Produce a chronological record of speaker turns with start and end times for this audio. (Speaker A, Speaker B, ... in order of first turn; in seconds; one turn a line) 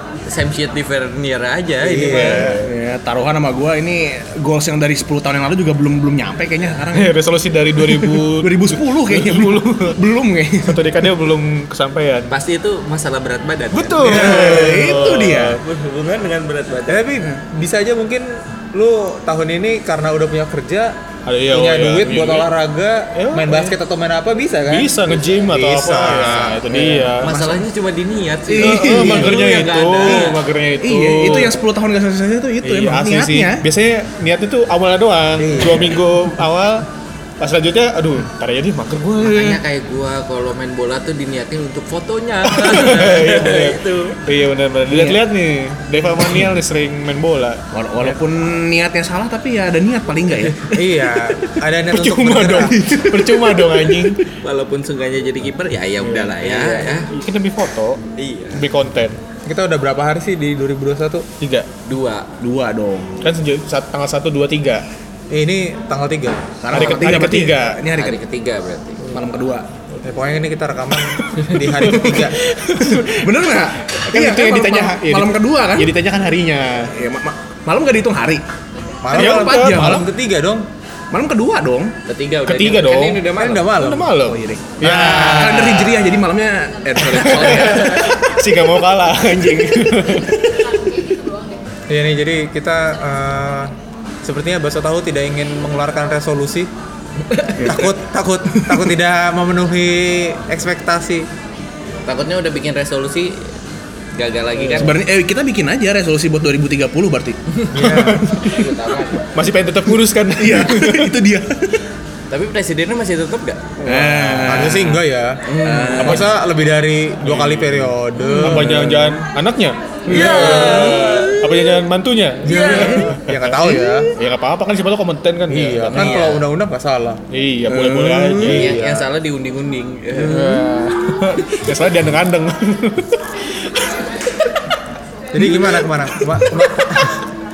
Speaker A: 0.2-2.4
Speaker B: 1.8-2.6
Speaker C: 2.0-2.7
Speaker D: 2.3-7.1
Speaker C: 6.9-10.0
Speaker D: 7.8-10.8
Speaker C: 10.6-12.3
Speaker A: 12.3-14.4
Speaker C: 13.7-15.6
Speaker D: 14.0-15.6
Speaker B: 14.1-15.0
Speaker A: 15.6-17.1
Speaker B: 16.9-20.9
Speaker C: 21.3-22.5
Speaker B: 21.5-27.1
Speaker C: 23.1-23.8
Speaker C: 24.7-27.4
Speaker A: 27.2-30.4
Speaker D: 27.2-27.6
Speaker D: 28.5-29.5
Speaker C: 28.6-31.6
Speaker D: 30.8-33.7
Speaker B: 32.6-32.9
Speaker C: 32.8-36.9
Speaker B: 35.4-36.0
Speaker C: 37.4-39.6
Speaker A: 39.2-44.2
Speaker C: 42.5-47.6
Speaker D: 44.9-45.2
Speaker D: 47.7-51.3
Speaker B: 50.7-52.8
Speaker C: 51.9-54.2
Speaker D: 52.8-54.1
Speaker A: 54.3-57.1
Speaker C: 56.0-58.0
Speaker A: 58.1-58.7
Speaker C: 58.5-59.2
Speaker B: 59.5-61.3
Speaker C: 61.4-61.7
Speaker A: 61.9-62.3
Speaker D: 62.4-63.2
Speaker C: 63.2-64.8
Speaker B: 65.3-66.5
Speaker D: 66.6-68.2
Speaker C: 66.7-67.9
Speaker A: 66.8-67.2
Speaker A: 67.9-69.1
Speaker D: 69.1-69.7
Speaker B: 70.0-72.4
Speaker C: 71.4-76.9
Speaker D: 71.6-75.9
Speaker D: 76.9-78.4
Speaker B: 79.0-80.7
Speaker D: 79.1-80.1
Speaker C: 79.1-80.0
Speaker D: 81.1-81.9
Speaker A: 82.0-83.7
Speaker C: 82.4-85.5
Speaker B: 83.3-84.2
Speaker D: 84.1-88.2
Speaker B: 84.8-86.1
Speaker C: 87.0-90.5
Speaker A: 87.1-88.2
Speaker D: 89.6-90.5
Speaker B: 91.9-96.7
Speaker A: 97.2-97.8
Speaker D: 97.6-97.9
Speaker B: 97.6-101.3
Speaker D: 98.5-98.8
Speaker A: 102.0-103.5
Speaker A: 104.1-105.0
Speaker D: 104.7-107.5
Speaker B: 107.7-108.3
Speaker C: 107.7-108.8
Speaker A: 108.3-109.2
Speaker C: 109.3-111.2
Speaker D: 110.3-111.8
Speaker A: 112.3-113.7
Speaker C: 113.8-114.8
Speaker D: 113.8-116.4
Speaker B: 114.5-115.4
Speaker A: 115.5-116.2
Speaker B: 116.0-118.9
Speaker C: 116.0-116.3
Speaker C: 117.2-126.2
Speaker D: 118.2-119.2
Speaker A: 120.1-121.8
Speaker D: 120.1-121.0
Speaker A: 122.4-123.1
Speaker B: 122.4-124.1
Speaker B: 125.5-127.2
Speaker A: 126.0-126.4
Speaker C: 127.3-129.1
Speaker D: 127.7-128.8
Speaker A: 128.4-130.6
Speaker C: 130.2-133.9
Speaker B: 135.3-137.2